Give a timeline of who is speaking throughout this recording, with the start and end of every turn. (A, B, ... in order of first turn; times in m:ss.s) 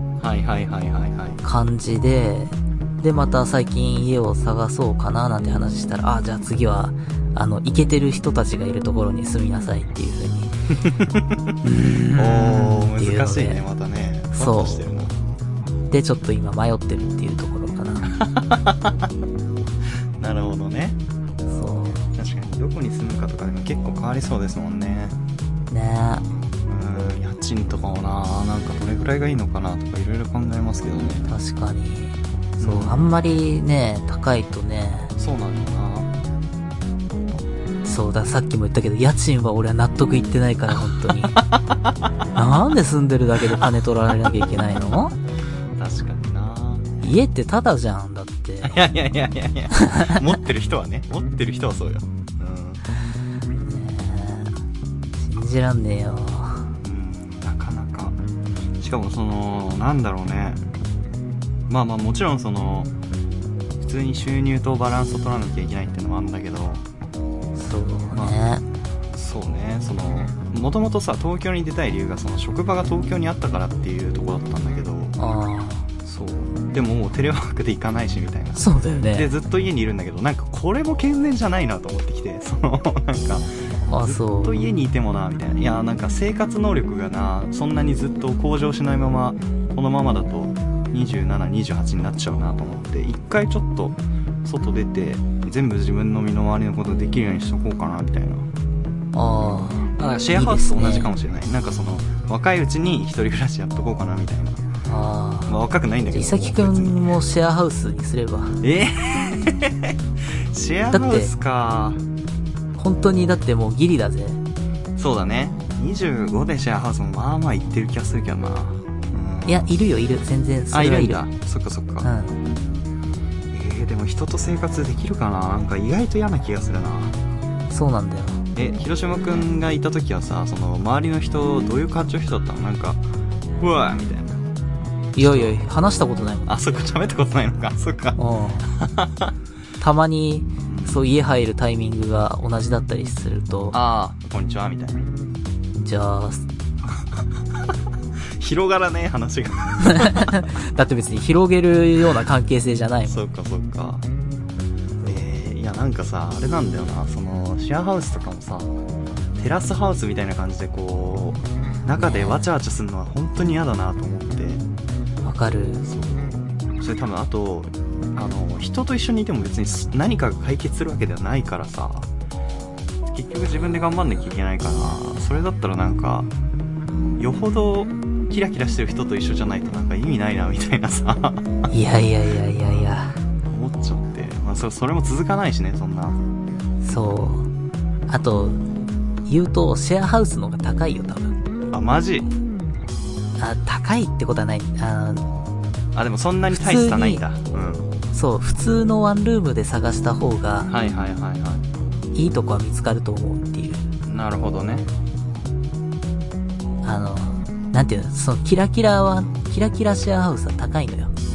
0:00.2-0:01.4 A
0:01.4-0:10.5 B
0:10.8-0:11.6 A
0:11.6-0:13.6 B
0:12.1-0:15.1 A
0:14.3-0:14.9 B
0:15.9-0:18.1 B
0:18.1-0:19.1 A
0:20.2-0:21.0 A
0:21.5-0:22.1 B
0:22.1-0:25.2 A
0:25.7-0:26.3 B
0:26.7-0:31.3 A
0:31.3-0:35.1 B
0:32.6-0:33.1 A
0:35.2-0:36.1 A
0:37.8-0:41.4 B
0:41.1-0:41.9 A
0:42.3-0:45.1 B
0:45.8-0:46.9 A
0:47.0-0:48.8 B
0:48.6-0:52.8 A
0:49.7-0:50.2 B
0:53.6-0:54.5 B
0:55.2-0:56.7 B
0:56.8-0:58.2 A
0:58.8-1:00.6 A
1:01.7-1:02.9 A
1:03.8-1:06.8 A
1:07.6-1:08.6 B
1:08.1-1:08.4 A
1:09.1-1:15.2 A
1:15.2-1:15.9 B
1:16.0-1:38.5 A
1:18.6-1:19.3 B
1:23.8-1:24.6 B
1:39.1-1:41.1 B
1:40.0-1:44.6 A
1:44.8-1:45.6 B
1:45.5-1:47.1 A
1:46.1-1:48.6 B
1:48.6-1:50.0 A
1:50.5-1:52.0 A
1:50.9-1:51.3 B
1:52.8-1:54.4 B
1:55.0-1:59.7 A
1:59.5-2:01.2 B
2:00.7-2:02.1 A
2:02.0-2:02.4 B
2:03.5-2:07.2 A
2:07.7-2:08.4 B
2:08.5-2:13.0 A
2:13.6-2:14.4 A
2:15.2-2:16.7 B
2:15.2-2:15.6 A
2:16.5-2:19.3 A
2:18.2-2:18.7 B
2:19.8-2:23.8 B
2:20.6-2:21.0 A
2:23.7-2:25.1 A
2:25.8-2:26.4 B
2:27.2-2:27.7 A
2:28.4-2:30.3 A
2:29.8-2:33.2 B
2:33.1-2:34.0 A
2:35.0-2:38.7 A
2:39.4-2:44.6 A
2:41.9-2:42.5 B
2:45.2-2:45.8 B
2:45.8-2:52.1 A
2:53.1-2:56.3 A
2:57.2-3:01.7 A
3:01.7-3:03.2 B
3:03.5-3:06.2 A
3:06.8-3:07.5 B
3:08.1-3:08.6 B
3:09.2-3:11.4 B
3:11.7-3:12.3 A
3:13.4-3:15.3 B
3:15.9-3:17.9 A
3:16.5-3:17.2 B
3:18.1-3:20.7 B
3:20.7-3:21.6 A
3:22.1-3:23.9 B
3:24.0-3:24.9 A
3:26.8-3:31.1 B